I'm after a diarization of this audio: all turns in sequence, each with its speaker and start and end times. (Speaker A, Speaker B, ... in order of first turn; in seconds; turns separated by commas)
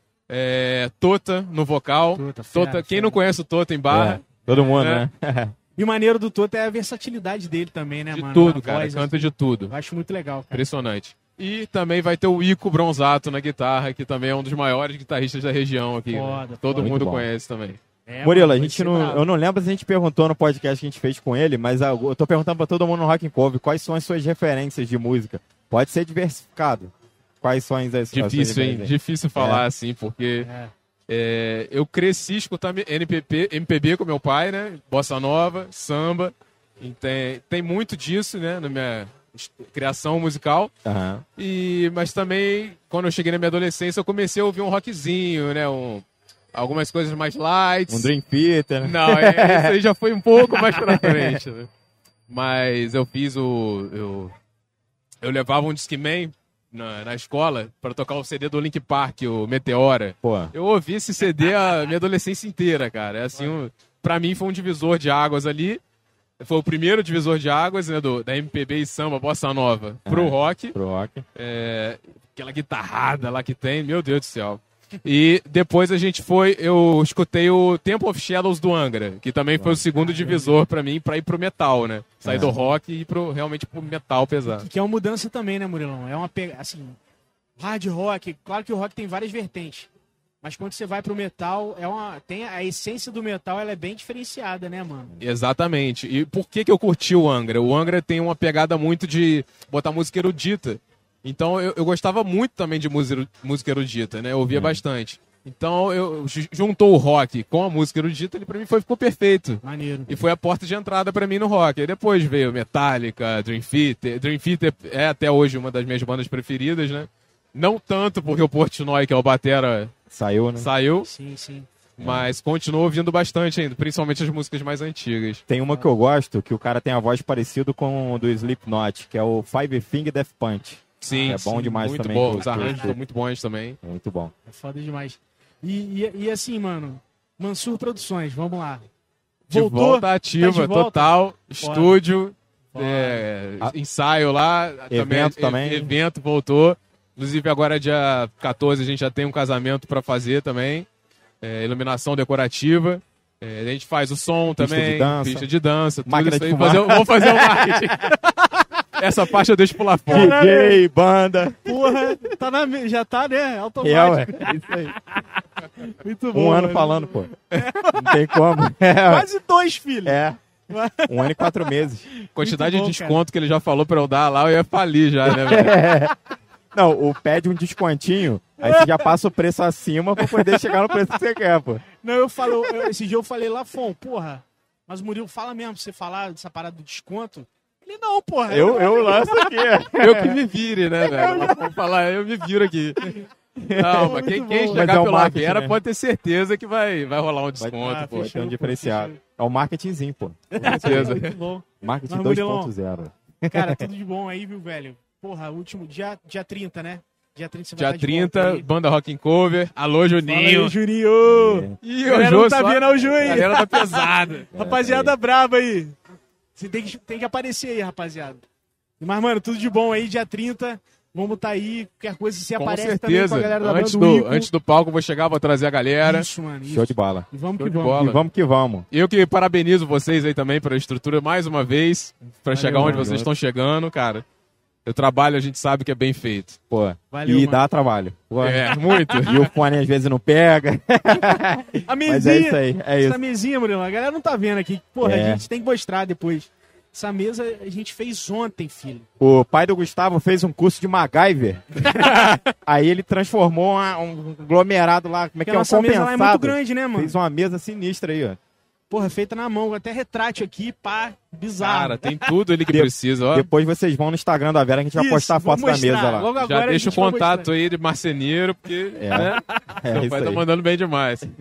Speaker A: 0.3-5.0, Speaker B: 2.1-3.2, Speaker C: 3.9-5.5, Speaker B: 5.8-10.6, Speaker A: 8.1-9.7, Speaker A: 10.5-17.8, Speaker B: 16.1-17.0, Speaker C: 16.8-17.3, Speaker B: 18.1-19.2, Speaker C: 18.2-29.6, Speaker A: 28.1-30.5, Speaker B: 30.4-30.7, Speaker A: 31.1-40.7, Speaker C: 40.8-41.2, Speaker A: 41.4-48.1, Speaker C: 47.9-49.8, Speaker A: 48.8-51.7, Speaker C: 50.4-51.4, Speaker A: 52.3-54.3, Speaker A: 55.2-65.8, Speaker C: 60.2-60.5, Speaker A: 66.4-70.8, Speaker C: 70.0-71.2, Speaker A: 71.3-84.7, Speaker B: 79.9-80.6, Speaker C: 82.2-82.5, Speaker B: 84.5-87.0, Speaker B: 87.6-89.9, Speaker B: 90.4-95.1, Speaker A: 95.2-119.9, Speaker C: 104.5-104.8, Speaker B: 109.6-110.2, Speaker C: 120.1-120.7, Speaker A: 120.6-121.1, Speaker B: 121.0-121.7, Speaker A: 122.0-125.4, Speaker C: 122.0-122.3, Speaker C: 125.5-133.0, Speaker A: 131.0-133.8, Speaker B: 131.0-132.9, Speaker C: 133.8-134.3, Speaker B: 134.4-138.8, Speaker A: 139.5-150.9, Speaker B: 139.5-142.0, Speaker B: 142.7-143.2, Speaker C: 144.9-145.9, Speaker A: 151.4-158.2, Speaker C: 154.6-155.5, Speaker C: 156.0-157.9, Speaker A: 159.0-160.4, Speaker B: 160.1-160.8, Speaker C: 160.1-162.2, Speaker B: 161.7-164.8, Speaker C: 163.8-165.0, Speaker B: 165.8-168.4, Speaker C: 166.3-167.3, Speaker C: 167.9-169.3, Speaker B: 169.1-173.2, Speaker C: 170.0-170.4, Speaker C: 171.1-172.1, Speaker A: 172.3-175.9, Speaker C: 175.3-176.1, Speaker C: 176.7-181.8, Speaker B: 178.6-179.1, Speaker B: 180.2-181.0, Speaker B: 182.0-189.8, Speaker C: 188.5-190.4, Speaker A: 189.9-193.1, Speaker B: 191.0-191.7, Speaker B: 193.0-193.3, Speaker C: 193.6-194.1, Speaker A: 193.7-198.3, Speaker B: 193.8-194.9, Speaker C: 194.7-195.8, Speaker C: 197.6-201.2, Speaker B: 197.8-199.2, Speaker B: 200.5-202.7, Speaker A: 200.6-201.4, Speaker C: 201.8-203.8, Speaker B: 203.5-208.7, Speaker A: 207.8-210.7, Speaker B: 210.2-215.9, Speaker C: 211.2-211.8, Speaker A: 211.8-214.5, Speaker C: 214.5-215.2, Speaker B: 216.6-218.4, Speaker B: 219.0-224.5, Speaker A: 222.6-226.3, Speaker B: 226.0-228.2, Speaker C: 226.7-227.3, Speaker A: 227.6-228.2, Speaker C: 227.9-228.8, Speaker A: 228.9-234.2, Speaker B: 232.5-233.1, Speaker C: 232.7-233.3, Speaker A: 234.8-236.6, Speaker C: 236.7-243.2, Speaker B: 237.1-237.6, Speaker A: 238.4-239.5, Speaker B: 239.0-239.2, Speaker B: 241.8-249.1, Speaker C: 245.0-245.4, Speaker C: 249.2-258.4, Speaker B: 251.9-252.3, Speaker B: 255.4-257.1, Speaker B: 258.9-262.3, Speaker A: 261.6-263.5, Speaker C: 262.7-266.3, Speaker B: 264.9-267.5, Speaker A: 266.3-271.3, Speaker C: 268.9-270.4